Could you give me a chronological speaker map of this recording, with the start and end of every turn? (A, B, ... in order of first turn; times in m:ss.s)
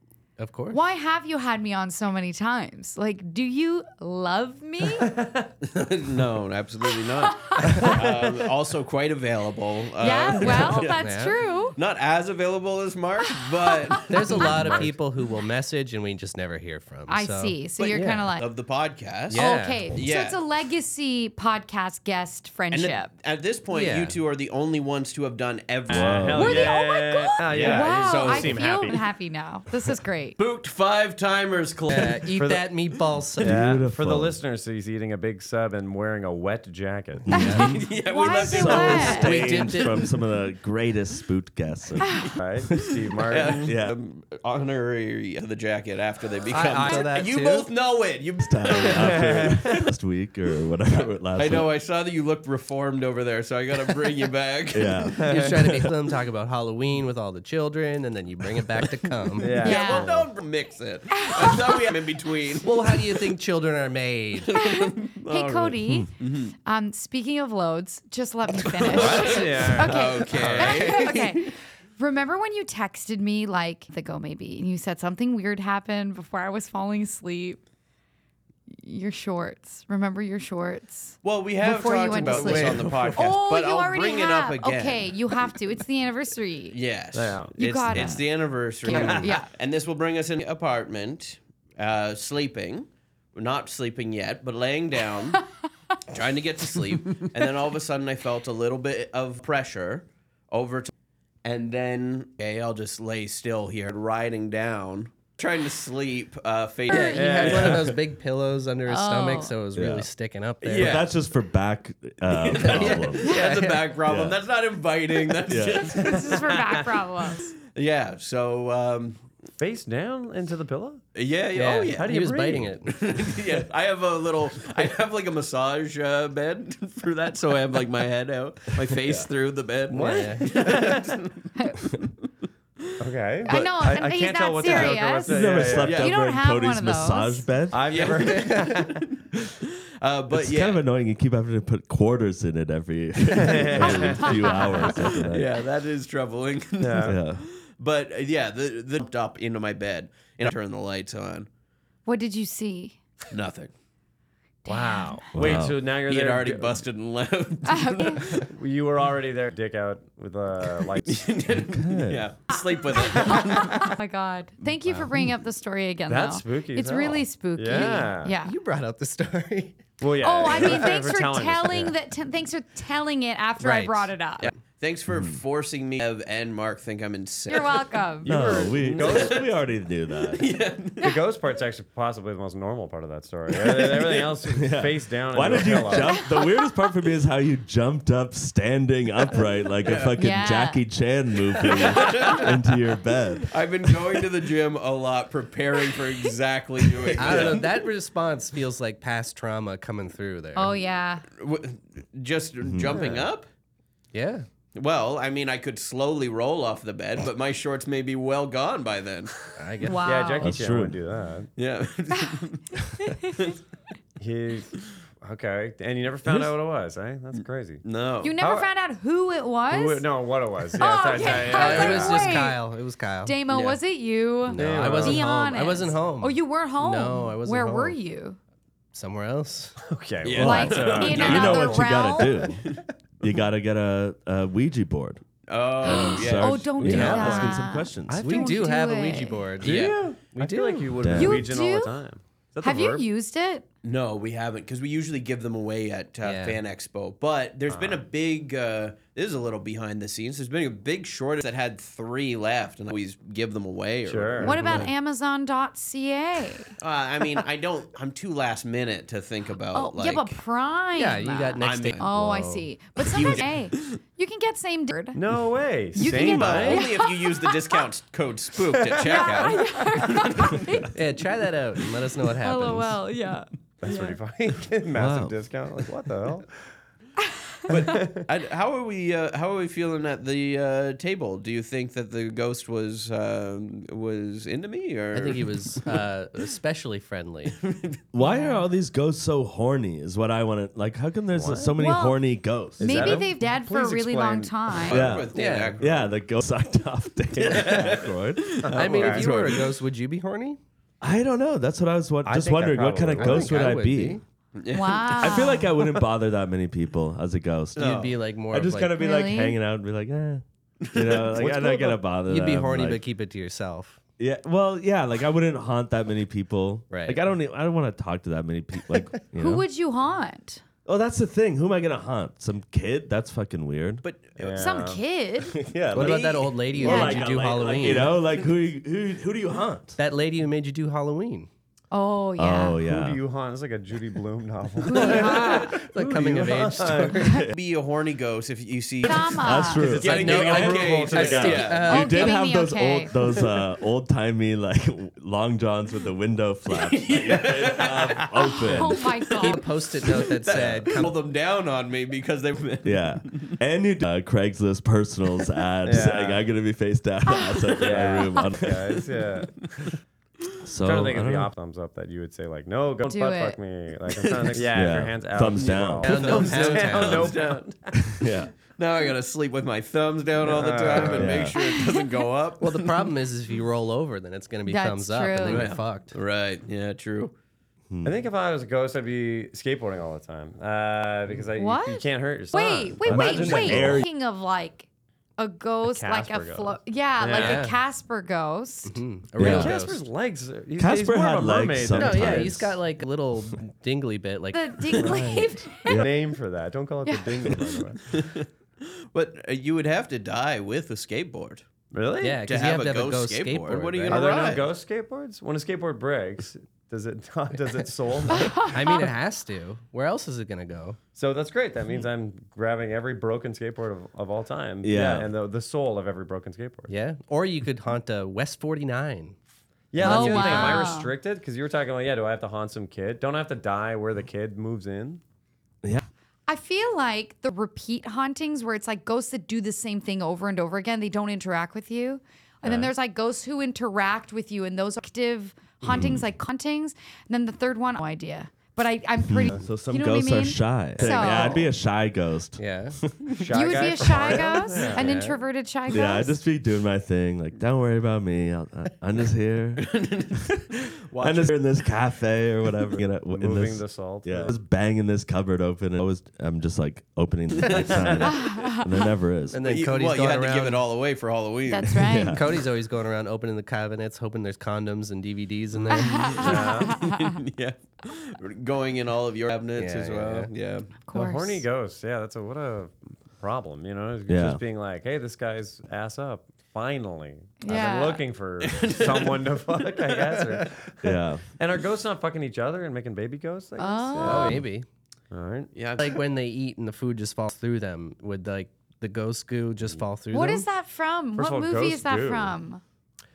0:00.4-0:00.8 A
0:00.7-0:05.1 B
0:05.0-0:05.5 C
0:05.6-0:10.9 D
0:07.4-0:07.9 B
0:07.7-0:08.3 C
0:10.0-0:11.8 B
0:10.4-0:11.4 A
0:11.7-0:14.9 D
0:13.6-0:14.8 B
0:14.1-0:18.3 A
0:17.1-0:18.4 B
0:17.8-0:20.4 D
0:19.3-0:20.0 A
0:19.3-0:23.1 B
0:22.7-0:26.7 D
0:23.7-0:24.2 A
0:25.9-0:29.0 C
0:25.9-0:26.7 E
0:26.4-0:30.4 B
0:27.5-0:29.0 D
0:30.4-0:32.3 D
0:31.9-0:33.7 A
0:32.3-0:32.7 C
0:33.4-0:37.3 C
0:33.4-0:34.4 E
0:37.3-0:42.9 E
0:37.3-0:39.4 B
0:37.4-0:37.7 A
0:37.6-0:39.9 D
0:39.0-0:40.1 A
0:42.4-0:43.7 C
0:43.3-0:49.7 D
0:43.4-0:44.0 E
0:46.5-0:47.1 C
0:46.7-0:47.7 A
0:48.4-0:51.7 E
0:48.8-0:49.8 C
0:51.3-0:55.2 D
0:54.7-0:55.9 E
0:55.2-0:55.7 C
0:55.3-0:59.6 A
0:59.4-1:00.3 C
0:59.5-1:03.3 D
0:59.6-1:00.1 B
1:01.1-1:01.9 B
1:02.6-1:04.5 A
1:04.5-1:06.5 D
1:04.5-1:17.6 B
1:08.6-1:11.5 D
1:08.9-1:11.1 C
1:18.7-1:26.8 B
1:21.2-1:25.3 D
1:22.1-1:23.2 A
1:22.2-1:22.6 C
1:26.7-1:35.4 D
1:27.1-1:27.5 C
1:27.6-1:28.3 B
1:28.8-1:29.5 B
1:28.9-1:29.3 C
1:36.1-1:40.9 D
1:41.4-1:47.8 D
1:46.9-1:47.5 B
1:46.9-1:51.0 A
1:47.1-1:48.0 C
1:48.8-1:49.6 B
1:49.7-1:50.1 E
1:50.6-1:51.1 D
1:50.7-1:53.3 E
1:52.4-1:56.4 D
1:52.6-1:53.9 A
1:54.0-1:54.4 E
1:55.5-1:56.0 E
1:55.7-1:57.5 B
1:56.0-1:56.9 C
1:57.7-1:59.2 D
1:59.6-2:01.0 C
2:01.1-2:02.1 D
2:01.6-2:02.9 A
2:01.9-2:02.8 C
2:02.8-2:11.4 D
2:09.9-2:10.6 A
2:09.9-2:11.2 C
2:13.0-2:16.0 C
2:13.4-2:17.5 B
2:14.7-2:17.8 E
2:15.8-2:16.1 D
2:17.7-2:19.0 C
2:17.9-2:19.2 D
2:18.2-2:18.8 A
2:20.0-2:20.8 D
2:20.3-2:25.6 E
2:23.3-2:24.9 C
2:25.0-2:31.5 D
2:26.8-2:27.2 C
2:27.0-2:27.4 E
2:32.0-2:33.0 B
2:33.3-2:33.7 D
2:34.6-2:35.2 B
2:34.7-2:36.8 C
2:35.3-2:35.8 E
2:35.4-2:38.5 D
2:37.7-2:38.2 B
2:38.3-2:41.3 C
2:41.0-2:43.9 D
2:41.5-2:42.3 E
2:42.5-2:48.5 B
2:46.1-2:48.3 C
2:47.7-2:49.8 A
2:50.0-2:51.9 C
2:50.2-2:54.5 B
2:53.6-2:54.1 A
2:54.4-2:59.4 D
2:55.1-2:55.4 E
2:57.5-2:58.6 B
2:58.2-3:00.5 E
2:58.2-2:59.4 C
3:00.3-3:01.2 D
3:01.0-3:06.2 C
3:03.6-3:04.2 D
3:04.5-3:13.6 E
3:09.8-3:10.2 D
3:10.2-3:10.8 B
3:11.7-3:12.5 D
3:13.5-3:17.7 D
3:17.2-3:20.8 A
3:17.2-3:17.6 E
3:20.5-3:21.2 B
3:21.4-3:23.5 D
3:22.6-3:23.2 E
3:22.9-3:23.2 C
3:24.1-3:24.5 A
3:24.7-3:29.5 D
3:29.6-3:30.1 A
3:29.8-3:30.5 B
3:30.0-3:31.5 C
3:30.4-3:31.0 E
3:31.6-3:33.6 D
3:33.1-3:33.3 B
3:34.2-3:37.8 C
3:37.3-3:38.4 D
3:38.2-3:40.0 B
3:38.4-3:38.7 C
3:39.7-3:42.4 C
3:40.8-3:42.6 B
3:41.2-3:43.4 A
3:43.2-3:48.4 B
3:43.5-3:43.8 D
3:44.5-3:45.2 C
3:44.5-3:48.0 A
3:48.9-3:49.8 A
3:49.8-3:51.8 C
3:50.2-3:51.8 D
3:50.3-3:55.2 E
3:50.4-3:52.4 B
3:55.5-3:57.1 D
3:55.8-3:58.3 E
3:55.8-3:59.5 B
3:56.8-3:57.6 A
3:58.1-3:58.6 C
3:58.2-4:01.0 A
3:59.6-4:03.0 C
3:59.6-4:00.0 D
4:01.0-4:01.5 E
4:01.1-4:01.9 B
4:02.6-4:03.6 B
4:03.8-4:14.8 D
4:06.2-4:06.6 A
4:07.7-4:08.0 C
4:14.0-4:14.9 C
4:14.4-4:16.7 B
4:14.6-4:14.8 A
4:16.8-4:20.4 D
4:19.7-4:25.2 B
4:21.0-4:22.7 A
4:21.6-4:22.0 D
4:23.0-4:24.0 D
4:25.1-4:26.9 C
4:25.9-4:27.8 B
4:26.0-4:30.6 D
4:29.0-4:29.6 C
4:29.0-4:30.9 B
4:30.9-4:33.0 A
4:32.4-4:34.2 B
4:33.8-4:36.5 C
4:34.9-4:35.4 E
4:37.6-4:38.0 B
4:37.7-4:38.2 C
4:37.7-4:46.0 D
4:45.1-4:47.6 A
4:47.6-4:48.0 D
4:48.1-4:53.2 E
4:48.2-4:48.6 B
4:51.3-4:51.8 C
4:51.8-4:55.0 B
4:52.8-4:55.2 C
4:54.8-4:56.1 D
4:54.9-4:58.6 E
4:55.3-4:55.8 A
4:57.4-4:59.8 D
4:57.6-4:58.0 C
4:58.6-4:59.3 C
4:58.7-5:00.6 A
5:01.0-5:04.2 E
5:02.2-5:03.8 C
5:03.2-5:04.2 A
5:04.6-5:05.6 D
5:04.7-5:05.7 B
5:05.2-5:13.0 E
5:07.8-5:08.1 D
5:07.8-5:09.0 A
5:09.0-5:09.6 B
5:10.8-5:11.4 D
5:11.6-5:14.0 A
5:14.2-5:19.6 E
5:16.9-5:17.2 A
5:19.3-5:20.6 B
5:20.8-5:24.0 E
5:24.0-5:24.9 D
5:24.4-5:25.0 C
5:24.6-5:25.6 B
5:25.5-5:30.0 E
5:25.9-5:28.1 A
5:25.9-5:26.6 D
5:26.8-5:27.2 B
5:27.2-5:28.3 D
5:30.0-5:31.5 A
5:31.9-5:32.8 B
5:32.4-5:33.2 E
5:32.8-5:37.3 C
5:34.8-5:35.8 B
5:35.9-5:37.4 A
5:36.3-5:37.5 E
5:37.5-5:42.0 D
5:39.0-5:39.8 B
5:39.4-5:49.0 E
5:40.0-5:42.3 A
5:40.3-5:41.8 C
5:41.9-5:43.1 B
5:46.7-5:49.3 D
5:48.7-5:49.7 B
5:49.4-5:51.1 A
5:50.0-5:53.6 D
5:50.5-5:50.8 E
5:52.8-5:59.0 E
5:55.8-5:56.4 C
5:57.3-5:57.7 B
5:57.8-5:58.1 D
5:57.8-5:59.5 C
6:00.6-6:01.5 E
6:00.8-6:07.7 C
6:03.1-6:03.6 B
6:04.2-6:04.6 D
6:04.7-6:06.1 E
6:05.6-6:07.9 D
6:06.0-6:07.3 A
6:07.9-6:08.5 E
6:08.7-6:13.1 D
6:10.4-6:11.5 C
6:10.9-6:11.6 E
6:11.6-6:12.1 B
6:12.6-6:16.2 A
6:14.6-6:15.7 B
6:15.4-6:17.3 D
6:17.9-6:18.2 E
6:18.0-6:24.0 C
6:21.6-6:24.9 B
6:23.0-6:24.1 E
6:25.4-6:29.0 B
6:25.8-6:27.6 C
6:27.3-6:27.8 A
6:28.8-6:30.0 A
6:29.4-6:29.7 E
6:29.4-6:32.6 C
6:30.8-6:32.7 E
6:32.0-6:35.2 A
6:34.5-6:36.0 B
6:35.0-6:36.1 E
6:35.0-6:38.1 C
6:37.0-6:37.4 B
6:38.1-6:41.6 D
6:41.9-6:42.4 C
6:42.2-6:44.4 A
6:42.5-6:44.7 D
6:44.1-6:49.1 C
6:48.6-6:51.0 A
6:51.1-6:56.9 C
6:54.8-6:55.3 E
6:56.9-6:59.3 A
6:59.9-7:05.2 C
7:00.0-7:00.9 A
7:00.0-7:01.1 B
7:06.5-7:21.7 B
7:15.9-7:16.2 E
7:19.2-7:23.1 E
7:22.6-7:23.0 A
7:23.3-7:25.2 C
7:23.5-7:26.4 B
7:24.9-7:25.4 A
7:25.9-7:30.6 E
7:29.8-7:31.6 D
7:31.1-7:39.6 E
7:33.3-7:34.5 C
7:37.6-7:38.2 D
7:37.9-7:38.2 C
7:38.3-7:38.8 B
7:39.5-7:40.9 A
7:39.6-7:42.1 D
7:41.7-7:42.4 B
7:42.0-7:42.5 E
7:42.3-7:46.4 A
7:45.9-7:47.4 B
7:46.2-7:50.9 D
7:46.4-7:47.0 C
7:49.8-7:50.5 A
7:51.0-7:51.6 B
7:51.1-8:04.6 C
7:54.3-7:54.6 E
7:57.6-7:58.2 B
7:58.6-8:00.4 D
8:01.0-8:01.4 E
8:03.8-8:04.6 B
8:04.2-8:04.8 A
8:05.3-8:05.7 C
8:05.7-8:06.2 D
8:06.0-8:10.7 A
8:10.3-8:12.8 B
8:11.4-8:12.6 C